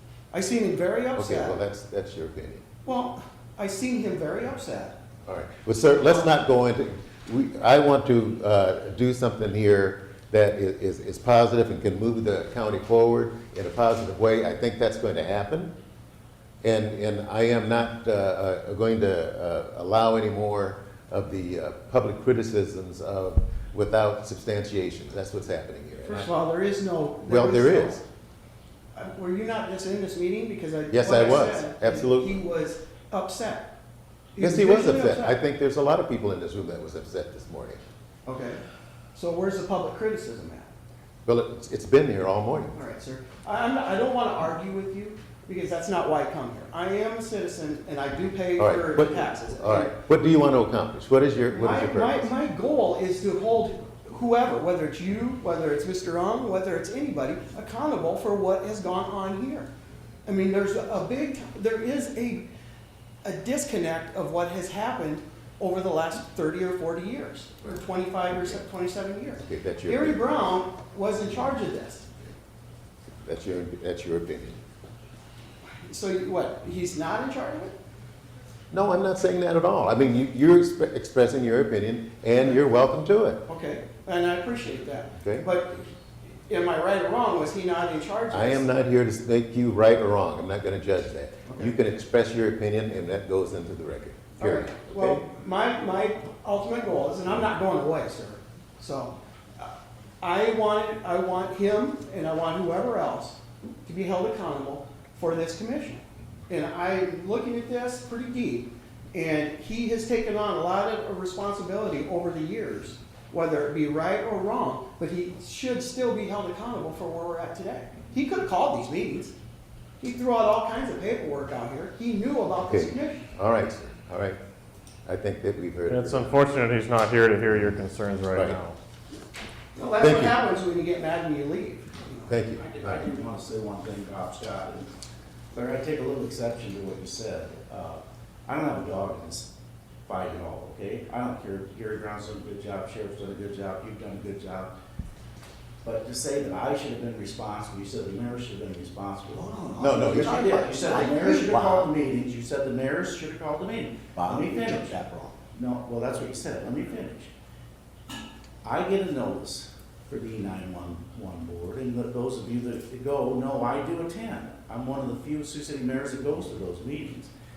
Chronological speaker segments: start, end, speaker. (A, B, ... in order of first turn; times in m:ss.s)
0:00.3-0:01.6 A
0:01.2-0:02.6 B
0:02.8-0:05.0 A
0:05.2-0:15.7 B
0:05.9-0:06.3 A
0:16.6-0:26.3 B
0:26.0-0:28.0 A
0:27.2-0:28.0 B
0:28.9-0:33.7 A
0:30.9-0:32.4 B
0:34.3-0:35.4 A
0:34.4-0:37.8 B
0:38.2-0:38.6 A
0:39.1-0:40.7 A
0:41.2-0:42.7 B
0:42.7-0:50.0 A
0:48.6-0:52.3 B
0:51.5-0:59.7 A
1:00.2-1:02.5 A
1:03.2-1:12.1 A
1:09.4-1:10.2 B
1:13.2-1:14.6 B
1:15.6-1:17.8 A
1:18.7-1:23.4 B
1:23.5-1:25.9 A
1:25.2-1:25.4 B
1:26.4-1:28.7 A
1:28.3-1:35.2 B
1:31.5-1:31.7 A
1:34.4-1:59.3 A
2:00.0-2:03.3 A
2:02.6-2:04.4 B
2:05.0-2:06.3 B
2:05.9-2:08.8 C
2:08.3-2:08.6 B
2:09.7-2:12.4 A
2:10.0-2:10.4 B
2:12.3-2:13.0 B
2:12.6-2:14.9 D
2:15.5-2:19.5 D
2:20.0-2:24.7 D
2:25.8-2:29.4 D
2:29.2-2:31.9 E
2:29.8-2:30.7 B
2:30.0-2:34.9 D
2:34.1-2:35.4 E
2:35.5-2:37.3 D
2:38.6-2:47.3 D